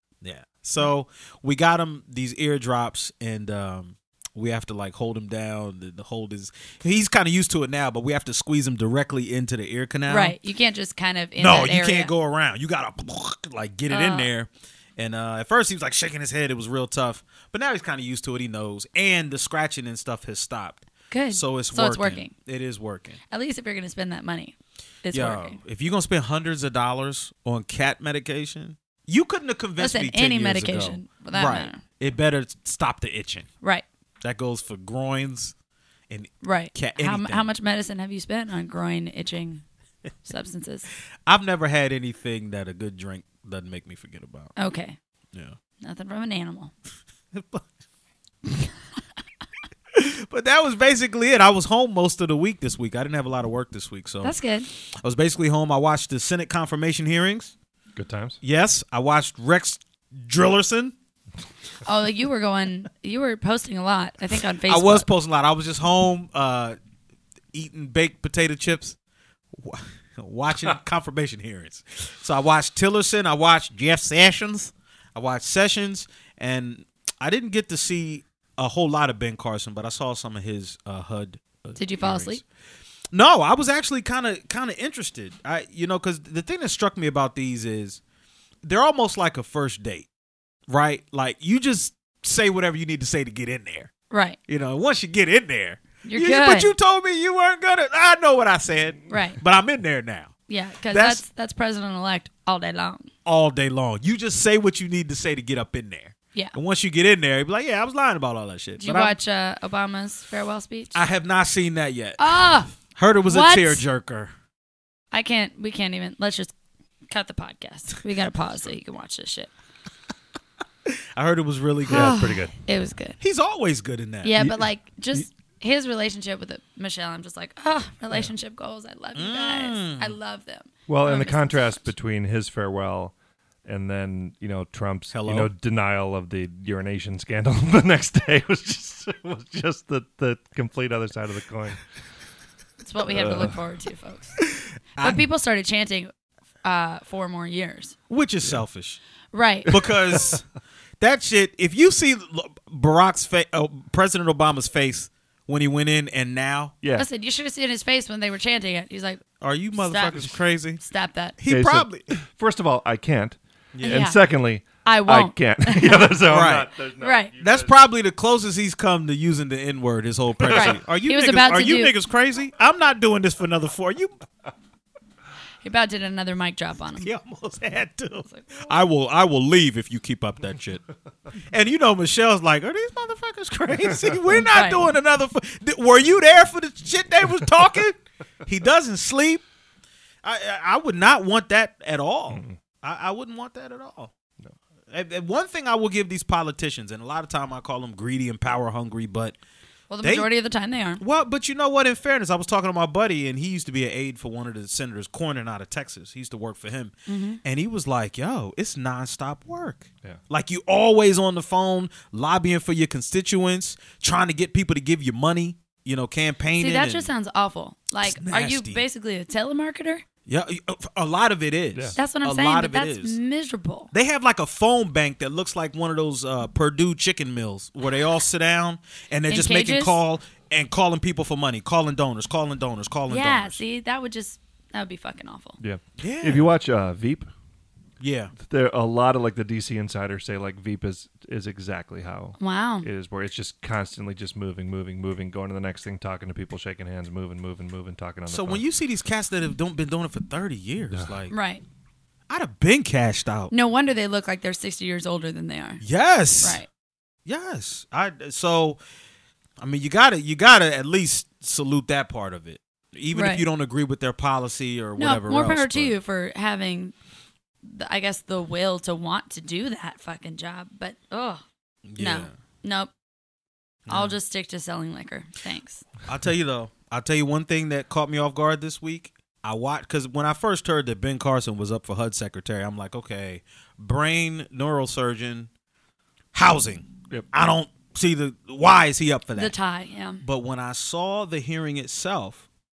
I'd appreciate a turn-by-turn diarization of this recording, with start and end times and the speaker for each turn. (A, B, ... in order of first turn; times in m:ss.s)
0:00.2-0:10.4 A
0:10.1-0:12.1 B
0:11.4-0:23.2 A
0:13.9-0:14.3 B
0:21.1-0:22.3 B
0:23.3-0:25.6 B
0:25.1-0:33.5 A
0:29.8-0:31.8 B
0:34.2-0:35.5 A
0:36.1-0:37.5 A
0:36.4-0:39.6 B
0:40.2-0:40.9 B
0:41.3-0:44.5 A
0:44.6-0:45.0 B
0:45.8-0:46.7 B
0:47.3-0:47.6 A
0:49.9-0:54.4 A
0:54.2-0:54.7 B
0:55.0-0:57.5 A
0:58.0-0:58.4 C
0:58.4-1:00.9 A
1:01.8-1:05.1 B
1:04.7-1:06.8 A
1:07.5-1:09.0 A
1:09.5-1:22.4 A
1:21.8-1:22.4 B
1:23.1-1:28.0 A
1:28.6-1:30.1 A
1:30.7-1:33.9 A
1:34.1-1:34.4 B
1:34.5-1:40.3 A
1:36.0-1:36.7 B
1:39.1-1:39.4 B
1:40.5-1:43.1 B
1:40.9-1:41.2 A
1:43.3-1:49.2 A
1:48.8-1:51.0 B
1:50.9-1:54.3 A
1:52.2-1:52.7 B
1:53.3-1:53.8 B
1:55.1-1:56.5 B
1:57.1-1:59.5 B
2:00.9-2:02.2 A
2:01.9-2:02.5 C
2:01.9-2:03.2 B
2:03.2-2:04.4 A
2:04.2-2:11.9 B
2:09.2-2:10.2 A
2:10.9-2:13.1 C
2:13.6-2:21.8 C
2:15.1-2:15.5 A
2:22.8-2:24.4 B
2:23.1-2:23.5 C
2:24.6-2:25.2 A
2:25.0-2:26.1 B
2:26.6-2:28.0 B
2:28.1-2:29.0 A
2:29.3-2:29.7 B
2:29.6-2:30.5 A
2:31.0-2:36.7 A
2:36.8-2:37.1 C
2:37.0-2:39.2 B
2:39.4-2:40.8 A
2:39.8-2:41.4 B
2:41.4-2:42.2 A
2:41.5-2:47.7 C
2:43.7-2:44.0 A
2:43.8-2:44.2 B
2:44.8-2:46.1 B
2:46.3-2:46.7 A
2:47.0-2:47.3 B
2:47.4-2:54.1 A
2:50.4-2:50.7 C
2:50.5-2:51.9 B
2:55.6-2:57.0 B
2:57.0-3:00.8 A
2:58.3-2:58.8 B
3:01.5-3:09.4 A
3:04.5-3:04.8 B
3:10.2-3:14.1 A
3:12.3-3:12.6 C
3:14.9-3:19.4 A
3:19.9-3:21.0 B
3:20.0-3:20.3 A
3:21.0-3:26.9 A
3:27.1-3:27.4 B
3:27.4-3:37.1 A
3:36.6-3:40.0 B
3:38.0-3:38.8 A
3:40.3-3:43.2 A
3:42.0-3:43.9 B
3:43.9-3:53.6 A
3:49.3-3:50.0 B
3:53.1-3:55.6 B
3:55.6-3:57.3 C
3:56.0-3:56.5 A
3:58.0-3:58.3 A
3:58.4-4:08.6 C
4:02.4-4:02.9 B
4:08.3-4:11.3 A
4:11.3-4:11.6 B
4:12.3-4:13.5 A
4:13.5-4:15.8 B
4:15.8-4:16.6 A
4:16.4-4:16.7 B
4:17.3-4:18.8 A
4:19.6-4:26.0 A
4:23.1-4:23.4 B
4:25.0-4:26.9 B
4:27.6-4:31.4 B
4:31.9-4:32.3 A
4:32.0-4:32.9 B
4:33.9-4:34.2 A
4:33.9-4:35.8 B
4:36.1-4:45.5 A
4:46.3-4:49.5 A
4:49.4-4:50.2 B
4:50.2-4:52.5 A